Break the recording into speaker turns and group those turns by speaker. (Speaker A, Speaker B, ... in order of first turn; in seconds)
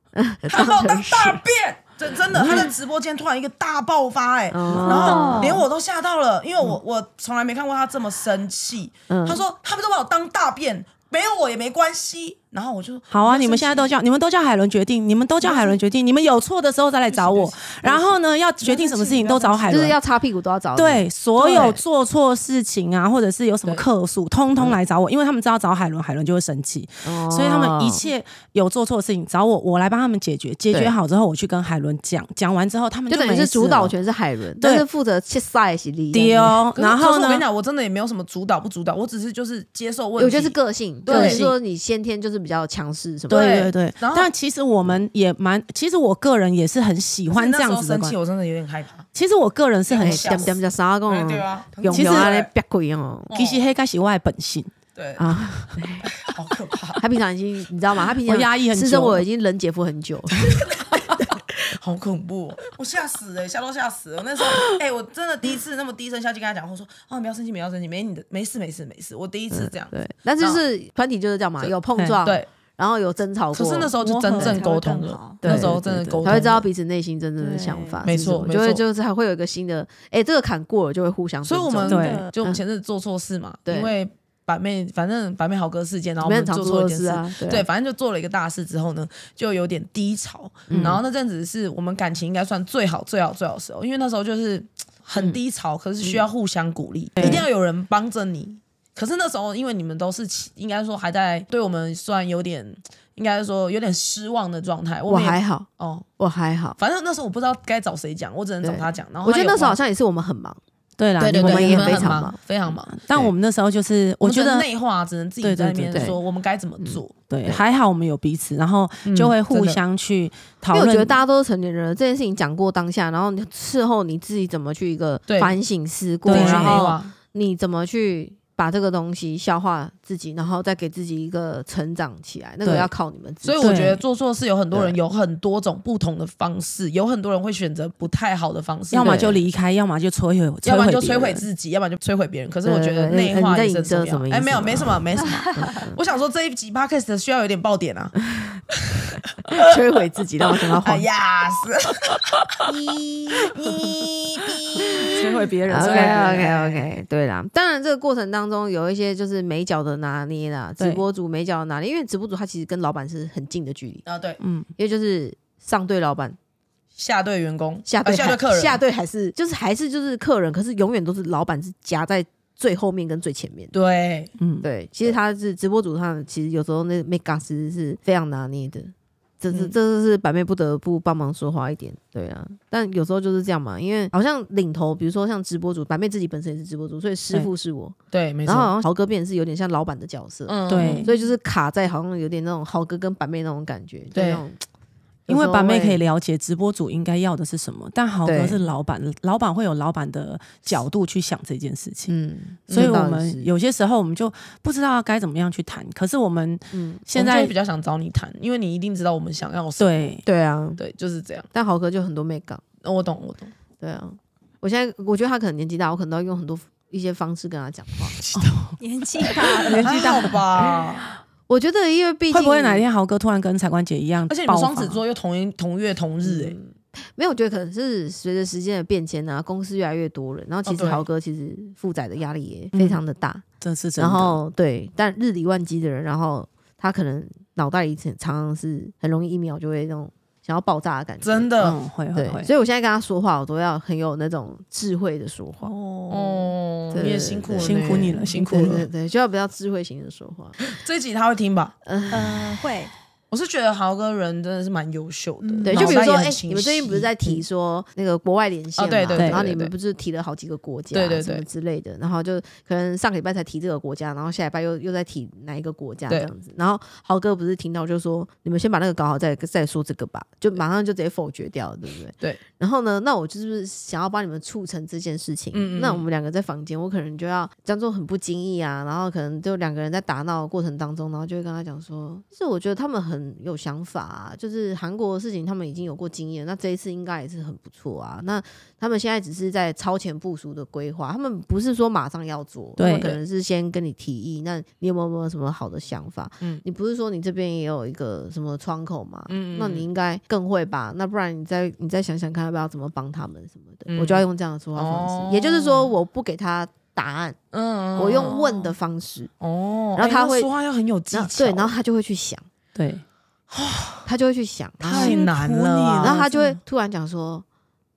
Speaker A: 0.1-1.4, 2.4-2.7, 4.5-5.6, 9.1-9.4, 19.7-21.8, 27.0-28.1, 33.1-36.6, 40.2-43.5, 50.0-53.3, 55.2-56.1, 57.0-61.4, 69.5-74.6, 75.4-82.6, 83.7-83.9, 86.2-87.7, 90.7-91.0, 97.2-97.5, 105.1-105.7, 106.2-106.8, 108.6-110.6, 111.2-112.4, 115.9-116.2, 116.8-117.6, 120.7-133.7, 134.7-135.0, 139.0-139.3, 142.7-146.0, 148.2-148.6, 149.4-151.1, 152.7-153.6, 155.7-164.1, 164.8-166.4, 167.9-173.7, 174.6-194.6, 195.3-196.0, 198.2-198.6, 202.1-203.5, 206.7-207.0, 210.2-210.8, 211.5-212.6, 213.8-218.2, 221.5-222.8, 226.2-233.4, 234.0-241.6, 242.1-246.3, 246.9-250.6, 251.8-252.5, 255.6-307.4, 308.0-309.3, 310.0-310.5, 311.1-312.4, 314.1-315.2, 316.0-317.4
Speaker B: 0.5-13.9, 15.4-15.8, 17.1-18.1, 18.6-19.9, 21.4-21.7, 36.7-41.5, 43.3-44.3, 47.3-49.1, 49.9-52.5, 53.3-53.6, 55.0-55.3, 56.1-57.0, 60.5-70.6, 73.5-76.7, 78.0-78.8, 81.5-106.1, 106.8-109.8, 111.2-113.3, 114.2-117.2, 119.0-119.8, 125.3-125.6, 126.3-127.1, 133.4-139.4, 140.6-148.2, 148.7-149.6, 150.8-152.7, 153.3-156.6, 164.1-164.4, 167.0-168.8, 173.7-174.3, 188.1-188.8, 190.5-191.1, 194.1-194.4, 202.7-203.0, 207.1-210.2, 210.8-211.5, 212.8-213.5, 218.2-218.6, 219.7-221.1, 224.3-226.6, 230.7-231.1, 241.2-241.8, 245.6-248.9, 250.6-251.8, 253.3-257.4, 258.8-259.7, 260.9-261.4, 275.5-276.1, 299.3-299.9, 303.9-304.2, 304.8-305.9, 307.5-308.7, 309.4-311.7, 313.5-314.1, 314.8-316.3
Speaker C: 4.8-5.6, 74.0-75.4, 77.4-78.0, 218.8-220.4, 252.1-252.9, 255.4-256.0
Speaker D: 13.1-20.0, 20.8-33.9, 34.6-34.9, 36.1-37.5, 41.1-41.6, 43.3-48.2, 49.1-50.6, 51.9-52.3, 53.3-54.7, 58.2-59.2, 74.0-74.6, 75.4-76.5, 81.9-82.3, 97.2-97.5, 111.0-112.2, 112.9-114.7, 115.4-116.2, 117.3-121.2, 126.3-126.9, 132.7-132.9, 133.6-134.0, 138.9-141.5, 155.1-156.8, 164.4-164.7, 174.4-174.7, 190.7-191.1, 195.3-202.1, 202.7-207.5, 209.8-210.2, 218.3-218.7, 222.3-225.0, 232.7-233.0, 233.6-234.4, 241.6-242.5, 247.6-248.8, 259.1-259.5, 292.8-293.2, 312.8-313.0, 314.9-316.5